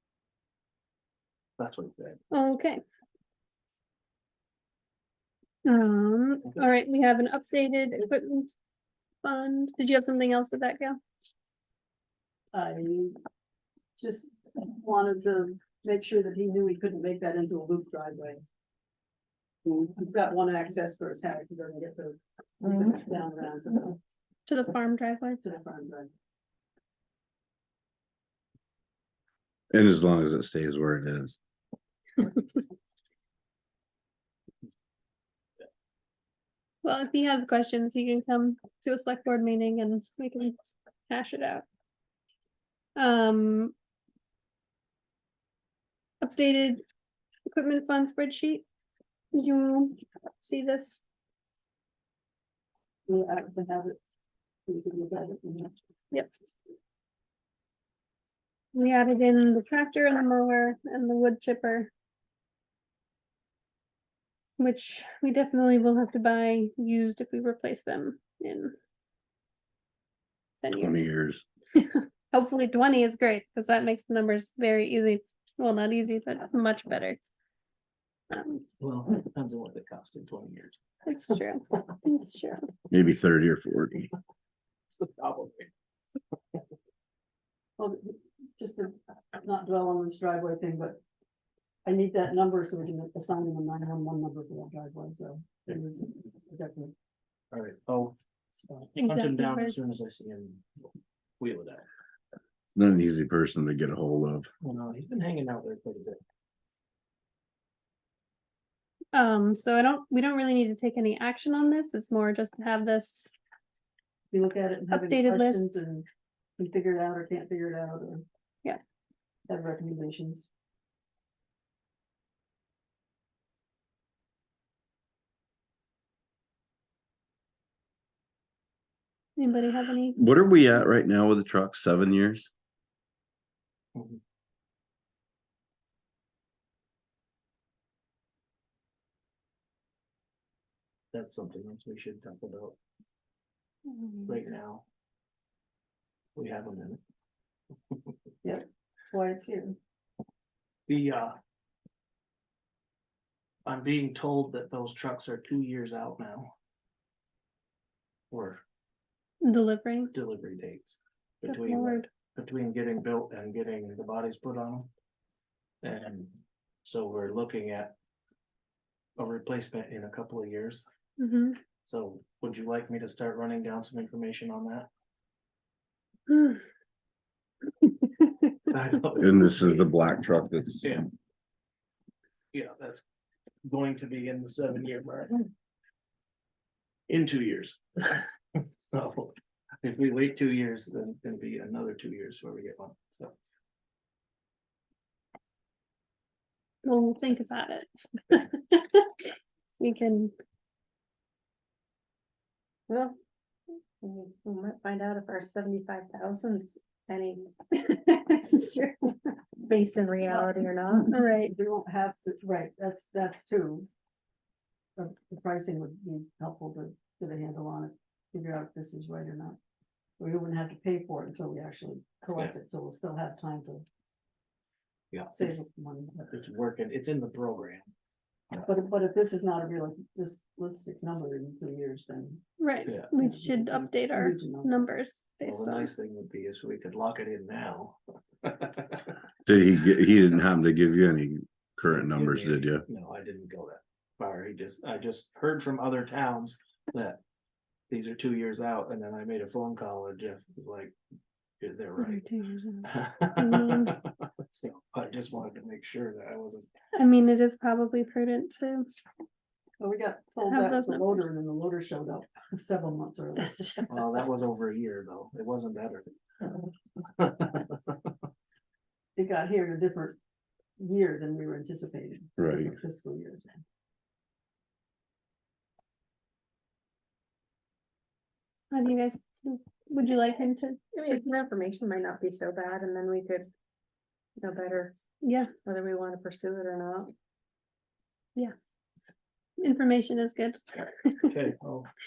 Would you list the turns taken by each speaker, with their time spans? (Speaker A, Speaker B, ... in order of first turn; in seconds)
Speaker A: 1.6-2.2, 78.8-80.8, 84.9-85.7, 97.5-98.2, 99.0-101.8, 104.6-106.2, 133.9-134.2, 141.1-142.8, 144.3-144.8, 146.4-147.0, 150.9-151.4, 153.7-156.5, 158.3-158.6, 160.1-164.9, 165.8-167.9, 169.2-170.8, 171.8-174.9, 178.7-179.9, 180.8-181.1, 182.5-183.0, 183.6-185.5, 187.1-193.3, 225.1-225.6, 226.3-227.9, 232.9-233.1, 235.4-239.1, 240.0-240.4, 242.2-247.2, 247.9-250.9, 251.6-252.2, 252.8-256.6, 263.9-266.1, 267.0-268.0, 291.3-291.9
Speaker B: 2.3-2.8, 5.7-8.5, 9.2-11.0, 24.5-25.4, 36.8-40.6, 41.1-41.6, 43.0-43.7, 46.2-46.8, 47.5-48.6, 49.3-51.0, 58.7-61.9, 64.6-68.7, 70.6-71.1, 71.7-77.2, 78.3-78.6, 81.0-82.6, 99.0-99.8, 109.1-113.3, 114.9-115.8, 129.4-130.8, 159.4-160.1, 161.4-162.1, 171.2-171.6, 176.3-176.6, 177.8-178.5, 196.8-199.1, 199.8-200.3, 207.8-209.0, 211.1-211.5, 232.6-235.9, 252.0-254.0, 256.9-258.9, 260.5-261.4, 263.4-263.9, 278.7-280.8, 285.2-285.5, 289.6-291.4
Speaker C: 12.5-13.2, 14.0-18.4, 19.7-24.0, 25.4-26.1, 53.1-54.0, 54.7-55.7, 87.8-91.0, 91.8-96.9, 98.5-98.9, 114.3-116.1, 116.6-118.2, 119.5-120.5, 148.4-149.8, 210.3-210.6, 211.4-213.9, 215.0-219.6, 220.2-223.8, 225.3-226.3, 228.6-232.4, 233.2-234.8, 259.8-264.0, 269.2-270.2, 270.8-273.6
Speaker D: 29.7-31.4, 70.7-71.4, 82.9-84.1, 102.8-104.5, 130.2-132.5, 179.2-181.0, 239.5-242.8, 272.4-272.7
Speaker E: 143.9-144.2, 202.9-203.2, 204.0-207.5, 209.6-211.3, 280.9-283.5, 284.4-284.9, 285.7-287.1